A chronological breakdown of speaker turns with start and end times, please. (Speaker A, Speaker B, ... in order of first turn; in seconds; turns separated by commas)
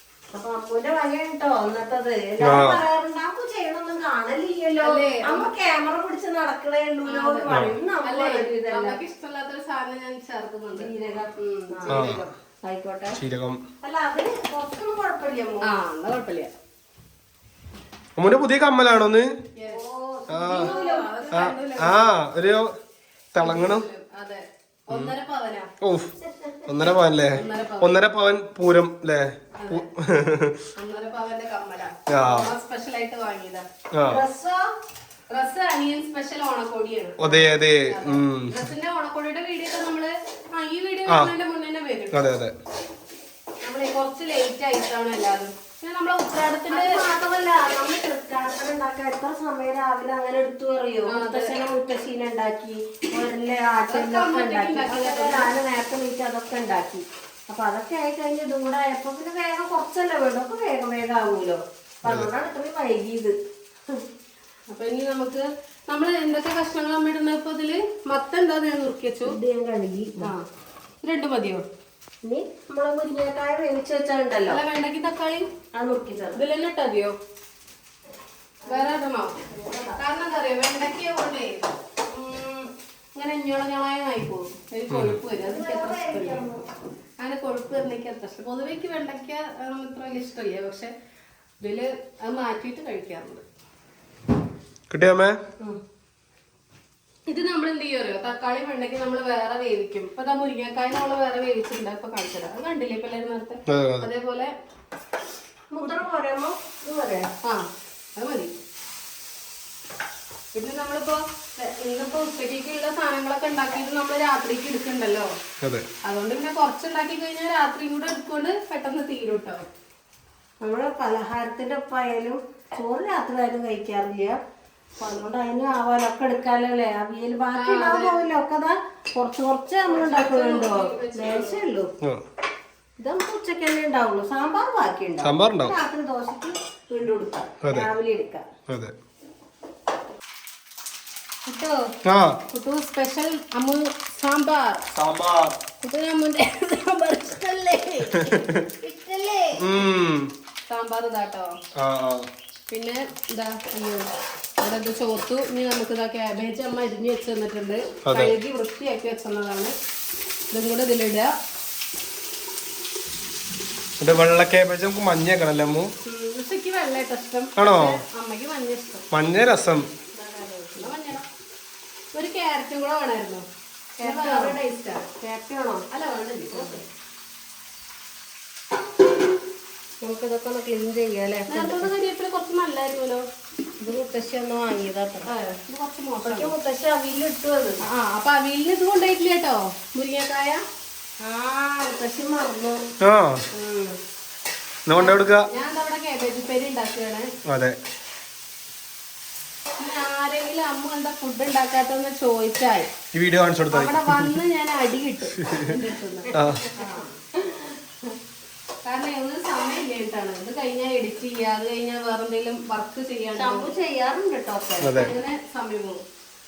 Speaker A: 0.3-9.0, Speaker B: 2.4-2.8, Speaker C: 4.8-5.5, Speaker C: 7.0-7.5, Speaker B: 7.5-7.8, Speaker C: 8.0-12.2, Speaker A: 10.7-13.2, Speaker B: 11.9-12.3, Speaker B: 13.2-13.6, Speaker A: 13.8-15.7, Speaker C: 15.6-16.5, Speaker B: 18.2-19.3, Speaker C: 19.6-19.8, Speaker A: 19.7-21.5, Speaker B: 20.3-20.7, Speaker C: 20.5-22.1, Speaker B: 21.3-22.7, Speaker B: 23.3-23.9, Speaker C: 23.4-25.7, Speaker B: 25.8-26.1, Speaker A: 26.2-26.9, Speaker B: 26.7-30.6, Speaker C: 26.9-27.9, Speaker C: 29.5-29.9, Speaker C: 30.8-33.7, Speaker B: 32.1-32.5, Speaker B: 33.9-34.2, Speaker A: 34.1-34.7, Speaker C: 35.3-42.2, Speaker B: 37.2-38.7, Speaker B: 41.1-41.3, Speaker B: 42.1-42.5, Speaker C: 43.6-47.0, Speaker A: 46.7-63.4, Speaker C: 51.1-51.5, Speaker C: 53.9-55.5, Speaker B: 62.0-62.3, Speaker C: 64.7-69.3, Speaker A: 69.2-70.3, Speaker C: 70.2-70.5, Speaker C: 71.0-71.7, Speaker A: 72.2-74.6, Speaker C: 74.5-75.5, Speaker A: 75.7-76.4, Speaker C: 76.3-77.2, Speaker A: 78.6-80.0, Speaker C: 78.7-79.3, Speaker C: 79.9-86.4, Speaker B: 84.9-85.2, Speaker A: 85.4-86.7, Speaker C: 87.2-90.9, Speaker C: 91.6-93.4, Speaker B: 94.9-95.4, Speaker C: 97.3-104.5, Speaker B: 103.7-104.1, Speaker A: 105.7-107.3, Speaker C: 107.4-108.5, Speaker C: 110.5-115.3, Speaker C: 116.0-119.7, Speaker A: 120.6-124.4, Speaker A: 125.0-131.9, Speaker C: 127.5-128.2, Speaker C: 129.8-131.6, Speaker A: 133.0-138.5, Speaker B: 135.2-135.8, Speaker B: 137.6-137.9, Speaker B: 138.7-138.9, Speaker A: 141.5-141.8, Speaker B: 142.1-142.4, Speaker C: 142.5-144.8, Speaker B: 144.9-145.5, Speaker C: 145.8-148.3, Speaker B: 148.2-148.6, Speaker A: 148.3-149.6, Speaker B: 149.6-150.3, Speaker C: 150.7-151.6, Speaker B: 151.8-152.3, Speaker C: 152.7-154.1, Speaker C: 154.6-159.7, Speaker B: 158.1-158.4, Speaker C: 160.5-161.3, Speaker B: 164.0-165.9, Speaker C: 166.0-169.1, Speaker B: 167.6-168.0, Speaker B: 169.1-169.9, Speaker A: 170.1-170.9, Speaker C: 170.8-171.3, Speaker C: 172.1-173.5, Speaker C: 174.0-175.1, Speaker A: 174.0-175.9, Speaker C: 175.9-176.8, Speaker A: 176.5-176.8, Speaker A: 180.0-181.9, Speaker C: 181.5-183.2, Speaker A: 183.8-185.3, Speaker C: 185.2-186.5, Speaker A: 186.2-187.8, Speaker C: 187.8-190.6, Speaker A: 191.2-192.8, Speaker B: 193.0-193.4, Speaker A: 193.6-194.0, Speaker B: 194.9-195.5, Speaker C: 194.9-197.3, Speaker B: 197.5-197.8, Speaker C: 199.8-202.9, Speaker B: 203.1-204.4, Speaker C: 203.7-207.1, Speaker B: 205.3-205.7, Speaker A: 206.3-207.6, Speaker B: 206.3-206.7, Speaker C: 208.8-213.7, Speaker A: 213.3-215.0, Speaker B: 214.8-215.2, Speaker C: 214.9-216.0